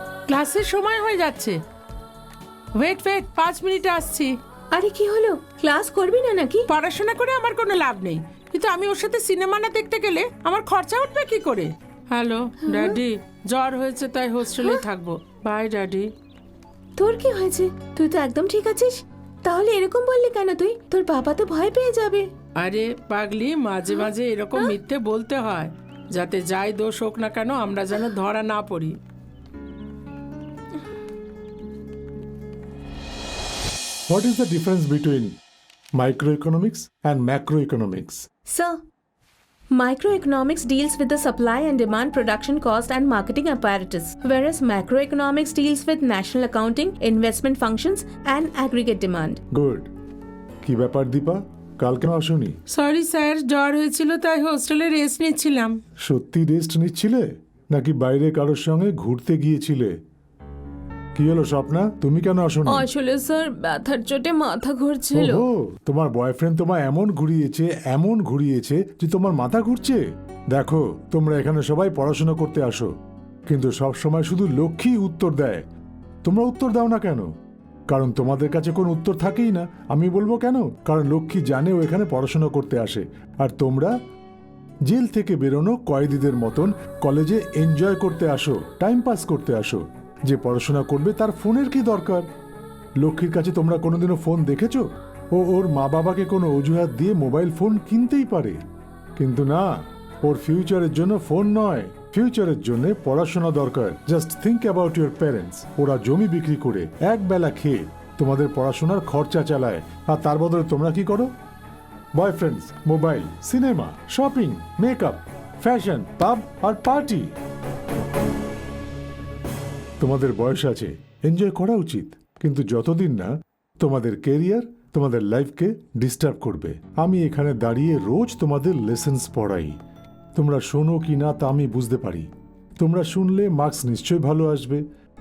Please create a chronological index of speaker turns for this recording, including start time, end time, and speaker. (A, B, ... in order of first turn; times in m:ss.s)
0:00.3-0:01.6 A
0:02.8-0:04.3 A
0:04.7-0:06.6 B
0:06.7-0:16.1 A
0:12.6-0:13.0 B
0:17.0-0:22.3 B
0:22.6-0:29.0 A
0:34.1-0:35.4 C
0:35.9-0:38.3 C
0:38.5-0:38.7 B
0:39.7-0:49.4 B
0:49.5-0:49.9 C
0:50.6-0:52.6 C
0:52.7-0:55.8 A
0:56.0-0:59.9 C
1:01.2-1:02.9 C
1:02.7-1:05.4 B
1:05.1-1:10.0 C
1:10.5-1:12.9 C
1:13.5-1:15.6 C
1:16.2-1:17.3 C
1:17.9-1:23.9 C
1:24.9-1:32.3 C
1:33.0-1:38.6 C
1:39.2-1:39.6 C
1:40.2-1:51.3 C
1:52.2-1:57.3 C
2:00.0-2:09.7 C
2:10.4-2:14.8 C